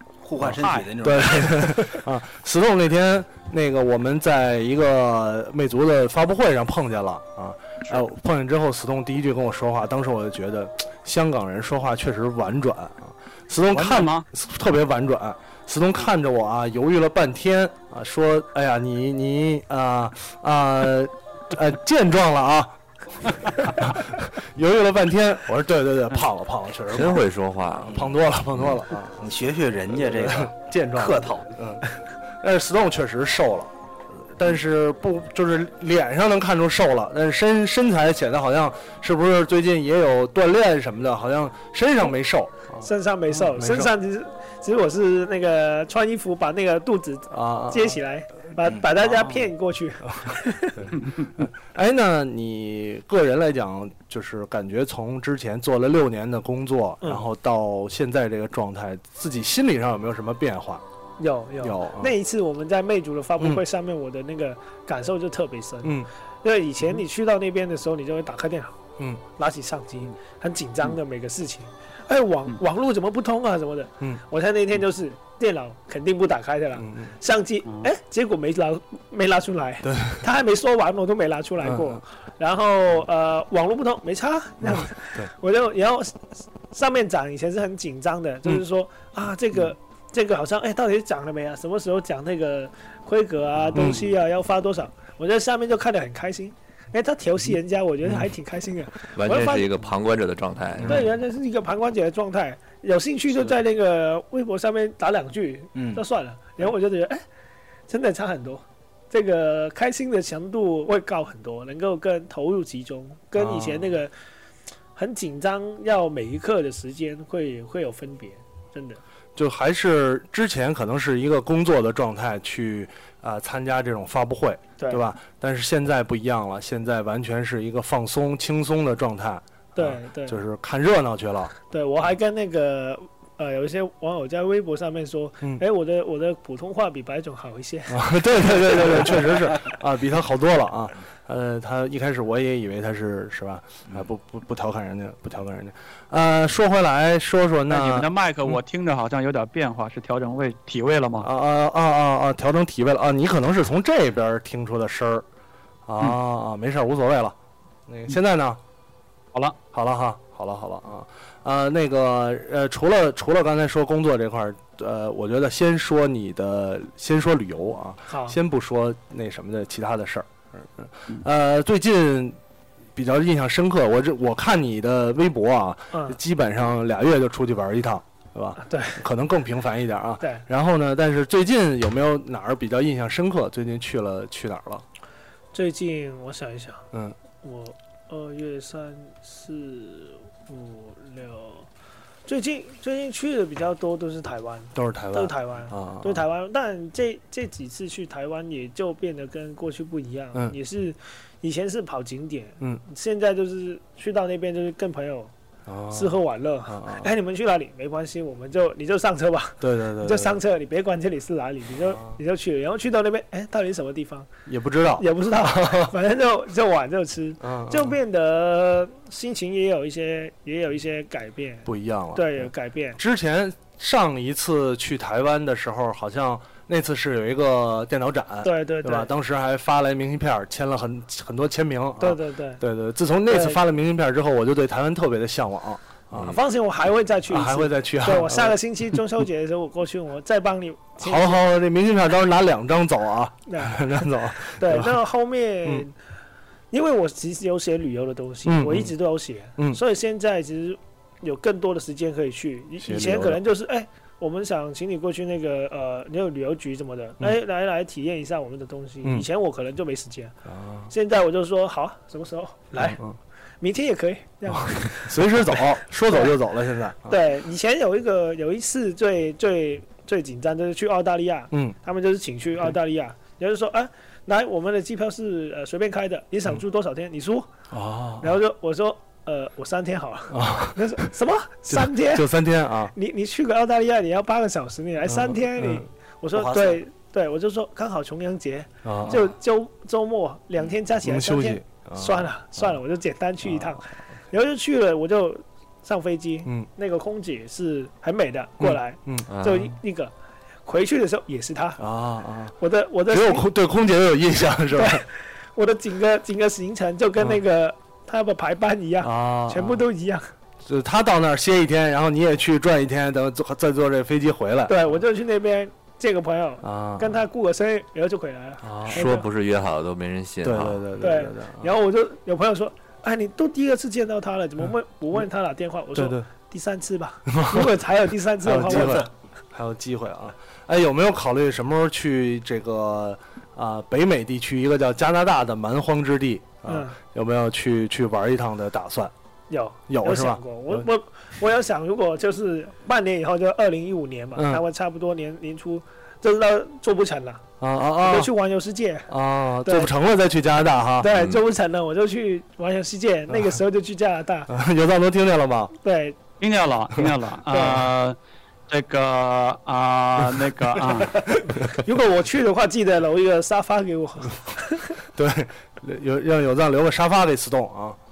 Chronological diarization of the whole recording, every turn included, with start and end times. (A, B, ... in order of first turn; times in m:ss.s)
0:00.2-0:01.6 A
0:00.4-0:31.9 B
0:00.5-0:01.2 C
0:13.7-0:14.2 C
0:26.9-0:27.9 D
0:27.8-0:28.1 A
0:29.2-0:31.5 A
0:32.4-0:43.9 B
0:42.8-0:50.8 E
0:47.3-0:48.0 B
0:50.2-1:00.8 B
1:01.2-1:08.8 E
1:01.6-1:02.1 B
1:09.4-1:39.7 E
1:16.8-1:17.1 B
1:19.8-1:20.2 B
1:21.6-1:22.0 B
1:24.6-1:25.3 B
1:33.7-1:34.1 B
1:39.2-1:41.0 D
1:40.8-1:41.0 B
1:40.8-1:47.2 E
1:45.8-1:46.0 A
1:47.9-1:54.1 E
1:53.4-1:54.0 B
1:55.0-1:59.0 E
1:59.4-2:11.5 B
2:09.8-2:10.4 E
2:11.7-2:18.0 E
2:17.9-2:28.1 B
2:18.6-2:19.0 E
2:27.7-2:31.3 C
2:31.2-2:35.2 B
2:35.9-2:37.4 B
2:37.9-2:38.6 B
2:39.7-2:52.4 B
2:48.1-2:48.4 E
2:53.0-3:04.8 B
2:55.9-2:56.2 E
2:58.6-2:59.0 E
3:05.5-3:06.8 E
3:07.4-3:11.7 E
3:12.2-3:25.3 E
3:14.7-3:16.2 B
3:25.7-3:27.1 B
3:25.9-3:34.3 E
3:29.6-3:30.4 B
3:31.8-3:32.2 B
3:34.5-3:35.9 B
3:35.0-3:43.0 E
3:37.4-3:38.0 B
3:41.6-3:56.4 B
3:48.4-3:49.1 E
3:52.0-3:52.6 E
3:53.3-3:53.6 E
3:56.2-4:01.4 E
3:57.3-3:58.6 B
4:01.0-4:05.0 B
4:03.5-4:03.8 E
4:04.5-4:05.9 E
4:06.7-4:20.3 E
4:08.4-4:08.9 B
4:12.8-4:13.4 B
4:20.5-4:20.9 B
4:20.9-4:23.0 E
4:22.8-4:23.2 B
4:23.6-4:26.3 E
4:24.5-4:27.2 B
4:27.0-4:37.5 E
4:37.7-4:38.4 B
4:38.2-4:42.3 E
4:40.3-4:41.1 B
4:41.7-4:42.9 B
4:42.9-5:00.1 E
4:45.0-4:45.9 B
4:46.4-4:46.8 A
4:48.8-4:49.3 B
4:51.0-4:52.8 B
4:58.6-4:59.3 B
4:59.3-4:59.7 D
5:00.6-5:01.8 E
5:01.8-5:02.6 B
5:02.6-5:03.5 E
5:03.1-5:05.0 B
5:04.7-5:10.3 E
5:09.0-5:09.9 B
5:10.6-5:14.9 B
5:14.7-5:19.3 E
5:16.6-5:17.2 B
5:18.6-5:19.1 B
5:18.9-5:20.8 D
5:20.4-5:21.7 B
5:21.0-5:29.1 E
5:25.9-5:26.3 B
5:27.3-5:27.8 B
5:28.4-5:39.1 B
5:28.8-5:29.0 A
5:36.6-5:37.0 E
5:39.5-5:47.4 E
5:39.9-5:40.9 B
5:44.4-5:44.6 B
5:47.6-5:48.3 B
5:48.0-5:49.1 E
5:49.1-5:51.2 B
5:49.6-5:49.9 E
5:51.0-5:54.5 E
5:53.3-5:53.6 B
5:54.5-5:55.7 B
5:55.8-5:56.2 E
5:56.4-5:58.2 C
5:57.5-5:57.8 E
5:58.7-6:01.2 C
6:01.5-6:01.8 B
6:01.7-6:04.9 E
6:05.1-6:08.0 B